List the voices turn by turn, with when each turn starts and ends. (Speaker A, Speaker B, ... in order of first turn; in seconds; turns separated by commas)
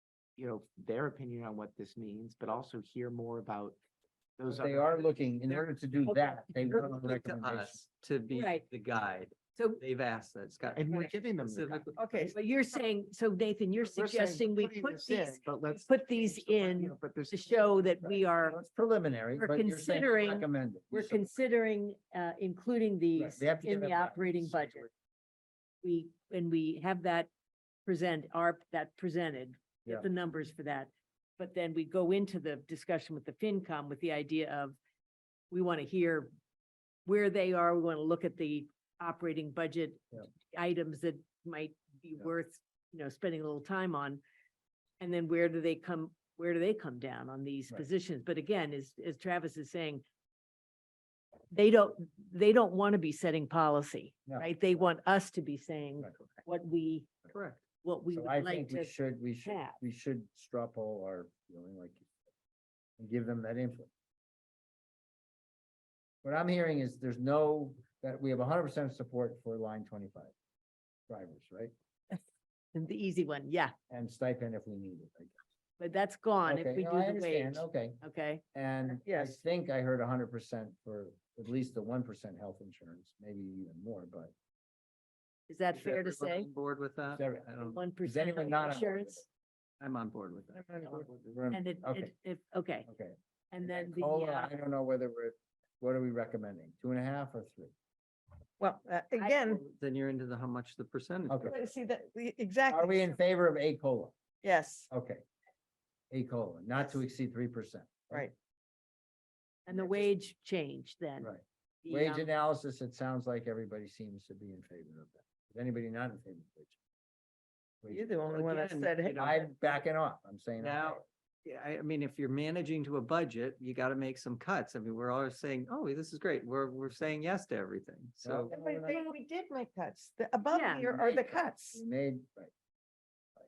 Speaker A: 0.3-3.8, Speaker A: 4.4-5.0, Speaker B: 4.5-7.8, Speaker C: 6.1-6.4, Speaker D: 6.7-12.1, Speaker C: 8.3-8.6, Speaker C: 9.5-9.8, Speaker A: 10.7-11.9, Speaker E: 11.9-12.3, Speaker C: 12.3-18.6, Speaker A: 13.8-18.2, Speaker B: 18.4-21.3, Speaker C: 19.4-24.9, Speaker B: 23.1-24.9, Speaker C: 25.8-27.3, Speaker C: 27.9-34.8, Speaker C: 35.5-36.3, Speaker C: 37.0-44.2, Speaker C: 45.0-50.0, Speaker C: 51.5-57.1, Speaker B: 54.2-54.9, Speaker D: 57.3-57.6, Speaker C: 57.8-59.8, Speaker B: 58.1-62.1, Speaker B: 63.0-63.9, Speaker B: 66.2-70.3, Speaker B: 71.1-71.7, Speaker C: 72.7-73.7, Speaker B: 73.9-75.3, Speaker C: 75.8-78.4, Speaker B: 76.5-78.0, Speaker B: 78.5-84.3, Speaker E: 79.0-79.4, Speaker C: 85.5-86.5, Speaker D: 85.7-87.8, Speaker B: 87.1-89.2, Speaker C: 87.7-89.2, Speaker D: 89.8-90.6, Speaker E: 90.5-91.1, Speaker B: 91.0-92.1, Speaker C: 91.5-92.9, Speaker B: 92.9-97.7, Speaker C: 93.5-94.5, Speaker E: 98.6-99.6, Speaker C: 99.2-99.4, Speaker D: 99.6-101.5, Speaker B: 101.3-101.6, Speaker E: 101.5-103.2, Speaker B: 102.7-104.2, Speaker E: 104.4-104.9, Speaker B: 104.9-105.2, Speaker B: 106.1-108.2, Speaker C: 109.7-111.3, Speaker E: 109.7-110.1, Speaker B: 111.2-116.8, Speaker C: 111.8-112.3, Speaker B: 117.8-118.1, Speaker E: 117.9-119.4, Speaker D: 118.3-119.4, Speaker B: 119.2-121.0, Speaker D: 120.6-128.5, Speaker B: 128.2-129.0, Speaker E: 128.5-131.8, Speaker C: 130.5-131.1, Speaker B: 131.7-132.5